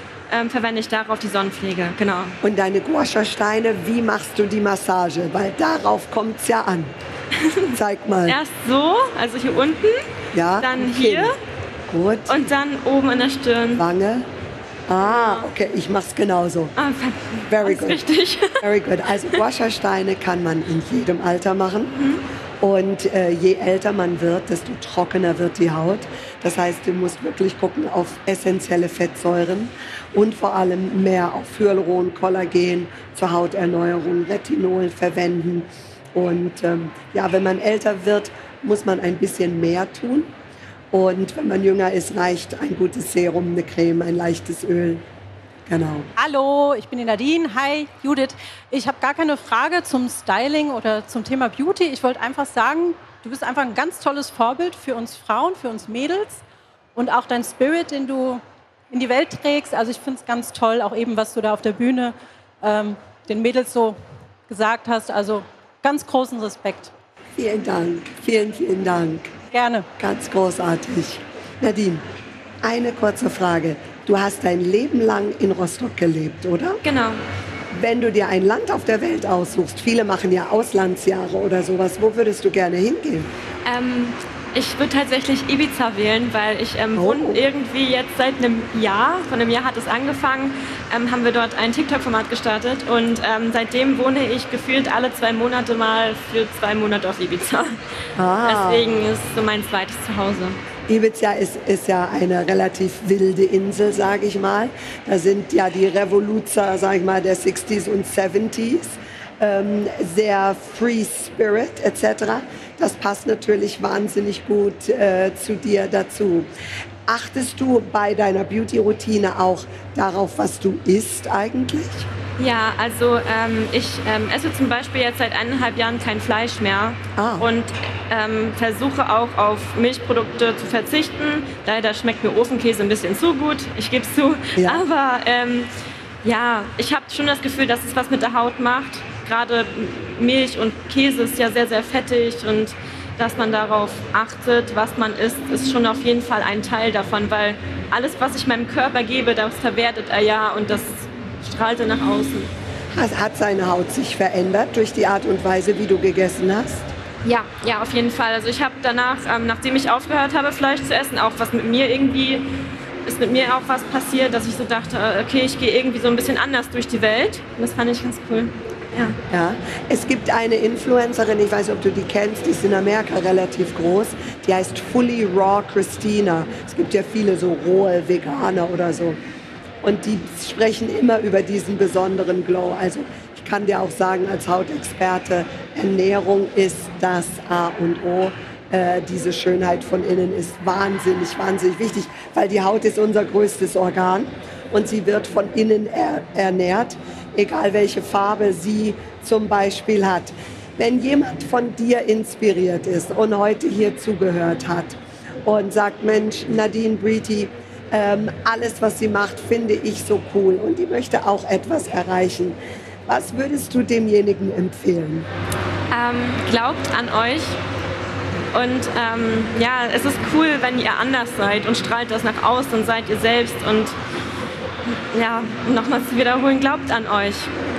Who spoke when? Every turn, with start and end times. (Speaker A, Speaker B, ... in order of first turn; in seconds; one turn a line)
Speaker A: 0.3-2.4
Speaker B: 2.4-6.9
Speaker A: 7.4-7.7
Speaker B: 7.7-8.4
Speaker A: 8.3-10.1
Speaker B: 10.3-11.3
Speaker A: 10.6-11.3
Speaker B: 11.9-12.4
Speaker A: 12.3-13.8
Speaker B: 13.8-14.3
Speaker B: 14.9-16.8
Speaker A: 15.1-15.5
Speaker A: 16.8-18.6
Speaker B: 17.5-18.0
Speaker B: 18.6-21.9
Speaker A: 21.9-22.2
Speaker B: 22.6-40.3
Speaker B: 40.9-45.0
Speaker B: 45.7-46.1
Speaker C: 46.2-56.4
Speaker C: 57.0-66.9
Speaker B: 67.4-69.3
Speaker C: 69.5-69.9
Speaker B: 70.0-72.0
Speaker B: 72.6-76.8
Speaker A: 76.8-77.2
Speaker B: 77.7-83.3
Speaker A: 83.6-97.8
Speaker B: 87.0-87.4
Speaker B: 98.2-98.9
Speaker A: 98.4-100.6
Speaker B: 100.9-116.5
Speaker B: 117.1-122.1
Speaker A: 122.4-135.7
Speaker B: 127.2-127.5
Speaker B: 134.6-134.8
Speaker A: 136.2-152.5
Speaker B: 152.9-156.9
Speaker A: 157.2-169.2
Speaker B: 169.3-179.2
Speaker B: 179.8-215.3
Speaker A: 215.9-217.6
Speaker A: 218.5-224.0
Speaker A: 224.9-227.5